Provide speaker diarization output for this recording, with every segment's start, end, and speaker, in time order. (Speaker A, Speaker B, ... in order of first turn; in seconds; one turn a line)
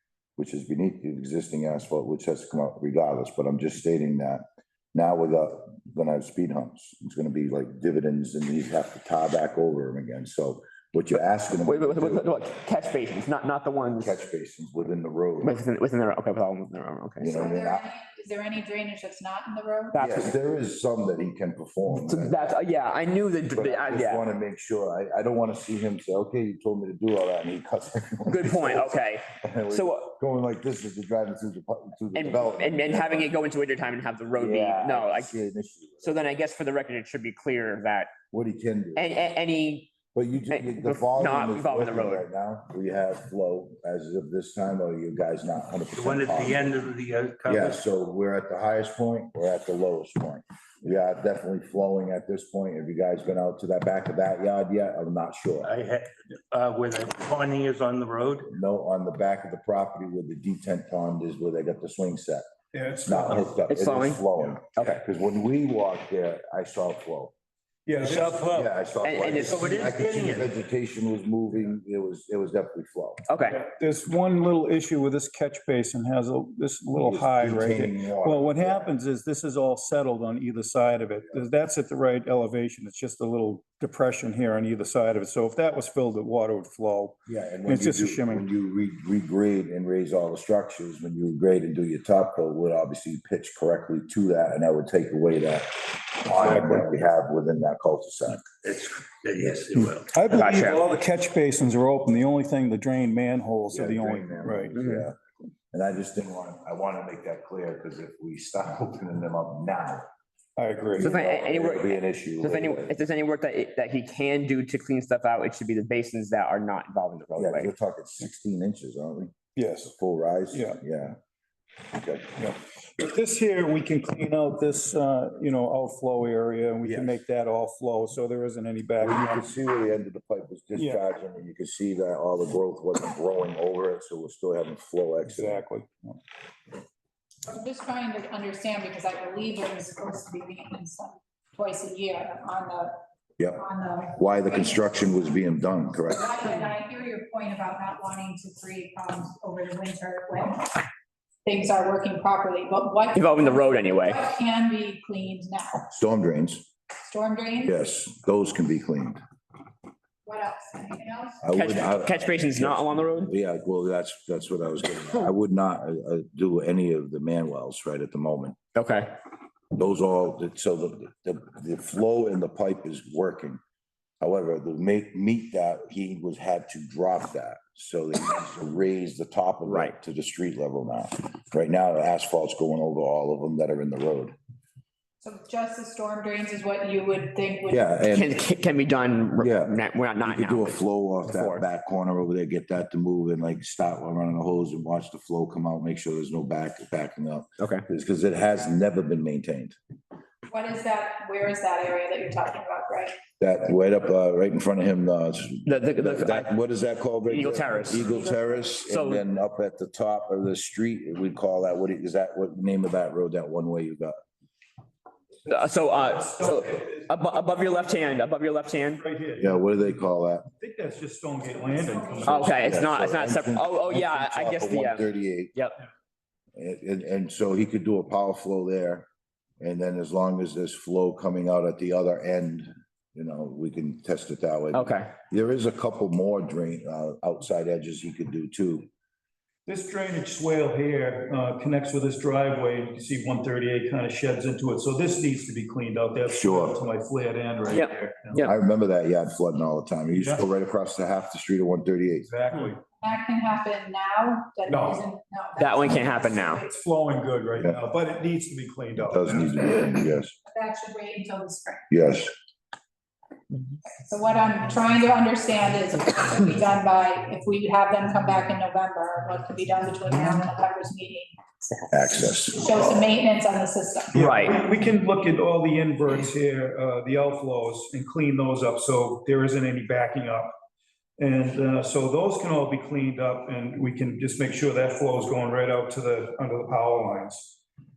Speaker A: 0.4-12.3
Speaker B: 11.6-14.2
Speaker A: 13.9-15.6
Speaker B: 15.4-17.4
Speaker A: 17.2-17.8
Speaker C: 17.3-20.0
Speaker B: 19.9-20.3
Speaker A: 20.0-22.6
Speaker B: 21.9-24.2
Speaker A: 23.5-33.3
Speaker B: 28.2-30.1
Speaker B: 32.1-35.4
Speaker A: 34.4-36.2
Speaker B: 36.0-38.1
Speaker A: 38.3-39.3
Speaker B: 38.9-39.9
Speaker A: 40.1-46.7
Speaker B: 40.5-42.2
Speaker D: 45.9-47.8
Speaker A: 47.5-55.7
Speaker D: 55.6-58.5
Speaker A: 58.5-62.5
Speaker E: 62.7-63.6
Speaker A: 63.0-67.3
Speaker B: 63.7-64.2
Speaker B: 64.7-65.0
Speaker E: 67.8-68.5
Speaker D: 68.0-68.7
Speaker A: 68.5-73.2
Speaker B: 69.0-69.7
Speaker D: 69.4-70.5
Speaker B: 73.3-73.7
Speaker E: 73.6-88.5
Speaker A: 77.0-79.0
Speaker A: 87.3-98.4
Speaker D: 98.6-100.5
Speaker E: 99.7-104.7
Speaker B: 100.3-100.8
Speaker A: 103.7-105.2
Speaker B: 104.8-105.1
Speaker A: 105.7-110.1
Speaker E: 110.6-111.1
Speaker A: 111.0-112.9
Speaker B: 111.0-117.7
Speaker A: 117.3-121.2
Speaker E: 119.5-119.9
Speaker E: 120.5-120.8
Speaker A: 121.9-122.3
Speaker E: 122.3-129.4
Speaker A: 126.8-127.2
Speaker A: 129.0-135.6
Speaker E: 130.8-131.0
Speaker E: 135.2-136.2
Speaker C: 137.5-143.0
Speaker A: 143.4-146.6
Speaker C: 143.6-144.7
Speaker C: 146.1-150.9
Speaker C: 151.4-155.9
Speaker B: 153.1-154.3
Speaker A: 155.9-156.7
Speaker C: 157.0-157.8
Speaker A: 157.6-159.2
Speaker C: 160.2-161.4
Speaker A: 161.4-168.6
Speaker B: 161.5-163.3
Speaker B: 168.7-169.1
Speaker A: 169.7-173.6
Speaker A: 174.2-184.3
Speaker B: 179.6-179.9
Speaker C: 185.2-187.9
Speaker A: 187.7-188.3
Speaker B: 188.1-191.6
Speaker A: 189.4-199.8
Speaker B: 197.6-197.8
Speaker C: 200.5-203.2
Speaker A: 203.4-214.2
Speaker B: 205.6-206.5
Speaker B: 207.3-208.2
Speaker B: 208.9-209.2
Speaker B: 215.4-219.0
Speaker E: 219.0-219.8
Speaker A: 219.4-220.5
Speaker E: 220.6-222.6
Speaker C: 221.4-222.8
Speaker B: 222.2-225.8
Speaker A: 222.6-225.5
Speaker A: 226.6-229.1
Speaker A: 229.6-238.9
Speaker B: 234.7-235.1
Speaker E: 239.7-248.4
Speaker A: 246.3-246.8
Speaker B: 247.7-248.5
Speaker A: 248.4-252.3
Speaker E: 250.1-250.4
Speaker E: 252.2-252.8
Speaker C: 253.0-256.7
Speaker E: 254.7-255.0
Speaker B: 255.6-256.6
Speaker E: 256.6-259.6
Speaker A: 259.0-260.4
Speaker C: 260.4-261.9
Speaker A: 261.9-262.3
Speaker C: 264.0-271.9
Speaker A: 271.9-272.7
Speaker C: 272.5-274.2
Speaker E: 274.1-280.5
Speaker B: 274.1-274.6
Speaker E: 281.2-287.6